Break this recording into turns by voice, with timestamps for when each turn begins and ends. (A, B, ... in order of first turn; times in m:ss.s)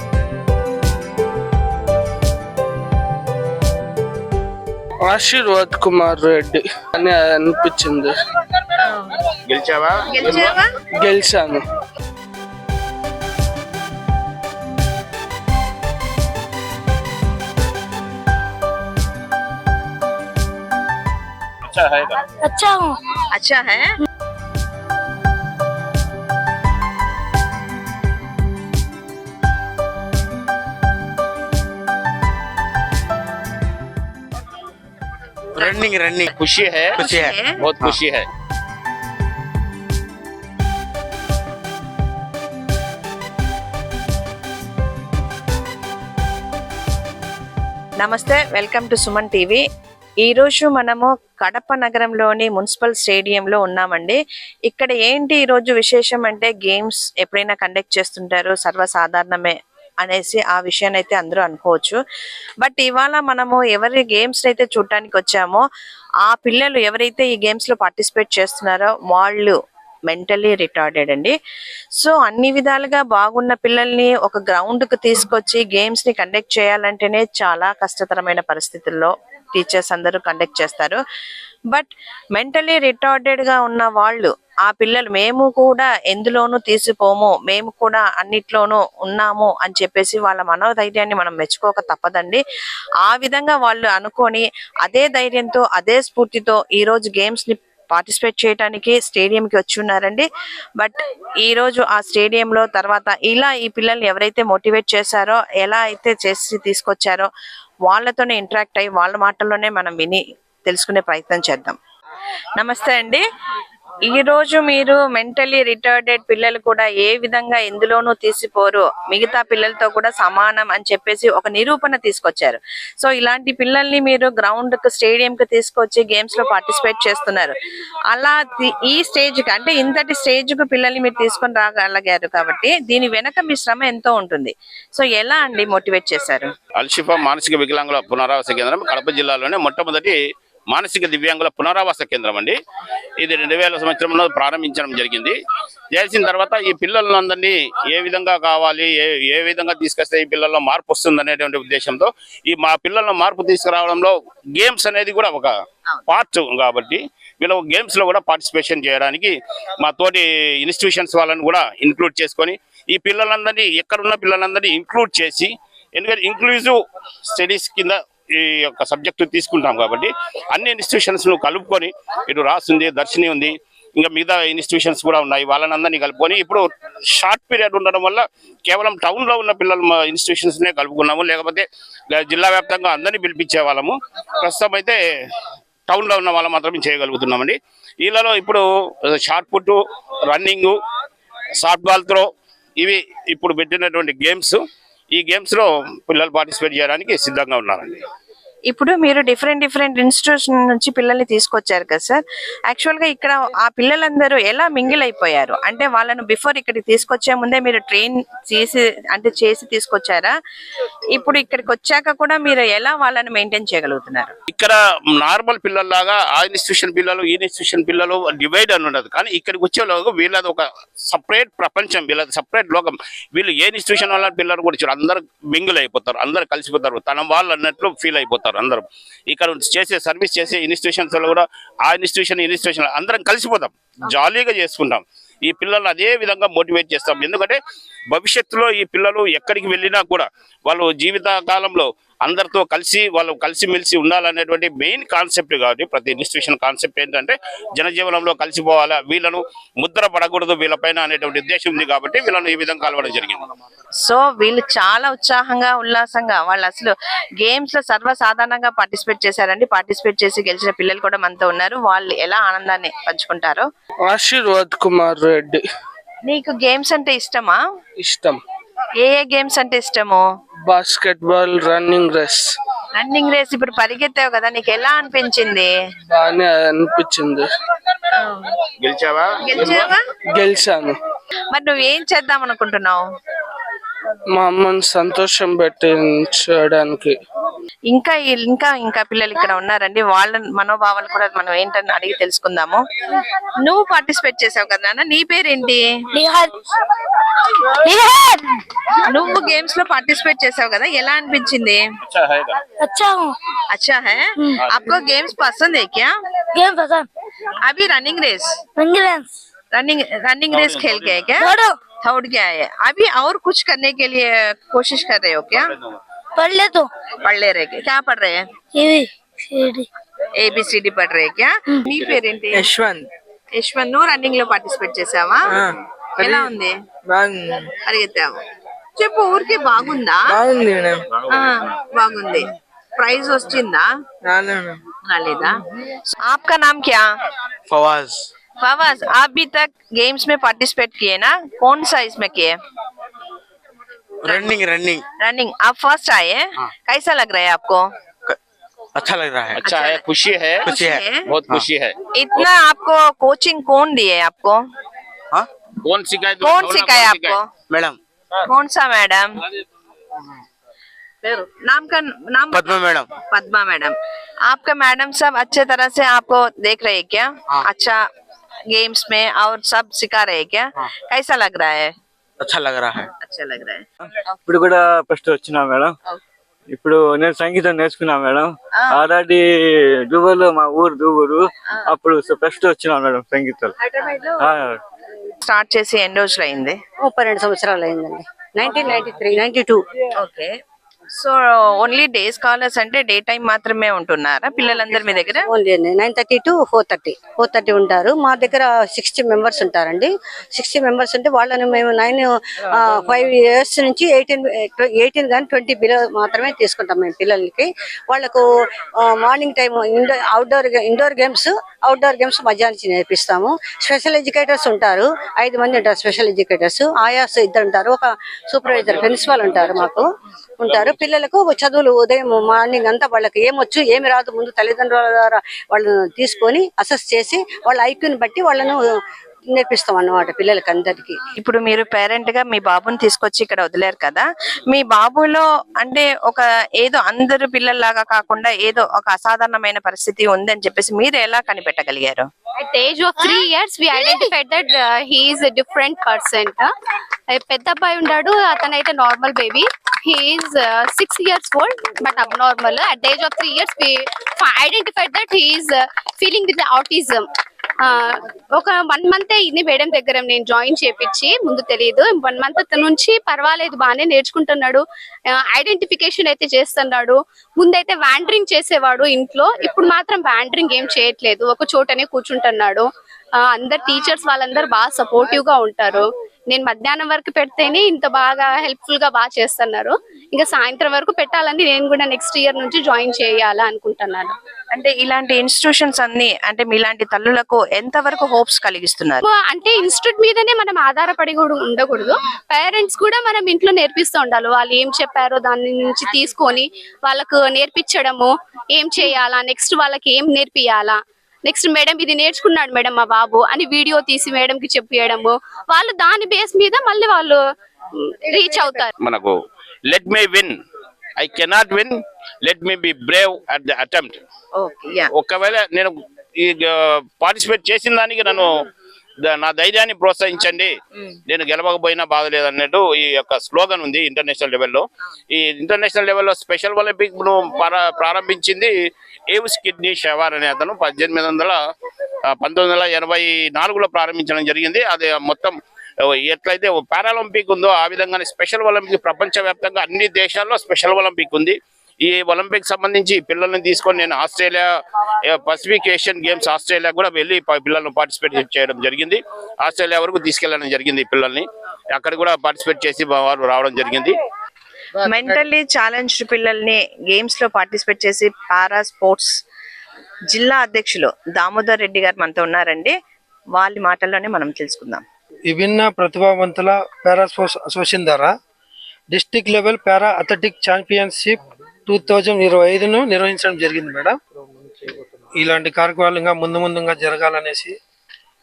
0:05.0-0:08.2 A
0:09.5-0:10.6 B
0:10.1-0:10.7 C
0:11.0-0:11.6 A
0:21.7-0:22.2 B
0:22.4-0:22.9 D
0:23.3-0:23.9 C
0:35.6-0:36.3 E
0:36.3-0:37.1 B
0:37.0-0:37.6 C
0:37.0-0:38.0 E
0:37.6-0:38.3 B
0:48.0-0:49.6 C
0:50.2-1:02.0 C
1:02.6-1:05.6 C
1:06.2-1:09.6 C
1:10.1-1:11.3 C
1:12.0-1:21.0 C
1:21.7-1:32.4 C
1:33.0-1:40.2 C
1:40.8-1:47.3 C
1:47.9-1:51.8 C
1:52.6-1:53.2 C
1:54.1-2:07.5 C
2:08.1-2:16.5 C
2:16.8-2:20.2 B
2:20.7-2:22.6 B
2:23.2-2:25.4 B
2:25.9-2:35.5 B
2:36.1-2:46.8 B
2:47.3-3:05.0 B
3:05.9-3:09.8 B
3:10.3-3:10.8 B
3:11.6-3:12.3 B
3:12.8-3:14.6 B
3:15.1-3:18.0 B
3:18.7-3:30.3 C
3:31.1-3:34.3 C
3:34.5-3:57.6 B
3:58.1-4:13.4 B
4:14.0-4:23.6 C
4:24.0-4:25.7 A
4:26.3-4:27.6 C
4:28.0-4:28.4 A
4:29.0-4:30.2 C
4:30.7-4:32.6 A
4:33.0-4:35.7 C
4:36.1-4:37.5 A
4:38.8-4:39.5 B
4:39.4-4:40.0 C
4:40.4-4:41.0 A
4:41.5-4:43.0 C
4:44.3-4:47.2 A
4:47.9-4:55.8 C
4:56.2-4:56.5 D
4:57.8-4:58.5 D
4:59.1-5:01.8 C
5:02.1-5:02.6 B
5:02.8-5:03.3 D
5:03.7-5:06.1 C
5:04.6-5:04.9 B
5:06.6-5:07.1 D
5:07.6-5:08.6 C
5:08.8-5:09.3 D
5:09.7-5:15.7 C
5:10.5-5:11.3 B
5:11.4-5:11.7 D
5:15.6-5:16.0 B
5:16.4-5:16.9 D
5:17.2-5:18.4 C
5:18.8-5:19.8 D
5:20.4-5:22.7 C
5:22.6-5:23.0 E
5:23.6-5:25.6 C
5:26.2-5:26.7 C
5:26.2-5:26.5 E
5:27.1-5:27.4 E
5:27.8-5:28.4 C
5:29.0-5:30.4 C
5:30.3-5:31.0 E
5:31.3-5:33.9 C
5:34.3-5:34.8 E
5:35.0-5:37.1 C
5:37.7-5:38.3 E
5:38.6-5:42.6 C
5:44.2-5:45.0 E
5:45.2-5:47.8 C
5:49.0-5:49.6 E
5:49.6-5:50.7 B
5:49.6-5:50.0 C
5:50.7-5:51.3 C
5:50.7-5:51.6 E
5:51.3-5:52.0 B
5:52.1-5:54.6 C
5:55.8-5:57.4 B
5:56.4-5:57.5 C
5:57.7-5:58.0 E
5:58.5-5:59.4 C
6:01.2-6:02.8 C
6:02.5-6:03.1 E
6:03.3-6:03.9 C
6:04.5-6:08.0 C
6:08.7-6:11.9 C
6:12.4-6:13.1 E
6:13.2-6:13.8 C
6:14.4-6:16.0 F
6:16.7-6:23.7 F
6:24.4-6:24.8 F
6:25.4-6:26.8 C
6:27.0-6:29.8 G
6:30.2-6:30.5 C
6:31.1-6:35.5 C
6:35.5-7:08.9 G
7:09.5-7:11.2 G
7:11.4-7:22.3 C
7:22.6-7:26.7 H
7:23.9-7:24.3 D
7:27.3-7:37.3 H
7:37.8-7:44.8 H
7:45.5-7:52.9 H
7:53.4-8:04.3 H
8:04.7-8:09.2 C
8:09.3-8:27.4 H
8:28.1-8:28.9 H
8:29.0-8:29.3 B
8:29.9-8:30.5 B
8:31.2-8:34.2 B
8:34.6-8:35.1 C
8:35.1-8:38.5 B
8:39.2-8:40.7 B
8:41.3-8:48.7 B
8:49.3-8:51.6 B
8:52.4-8:55.6 B
8:56.2-9:04.7 B
9:05.2-9:14.1 B
9:15.0-9:19.3 C
9:20.3-9:22.9 C
9:23.6-9:25.0 C
9:25.5-9:28.3 I
9:29.1-9:34.2 I
9:35.3-9:37.7 I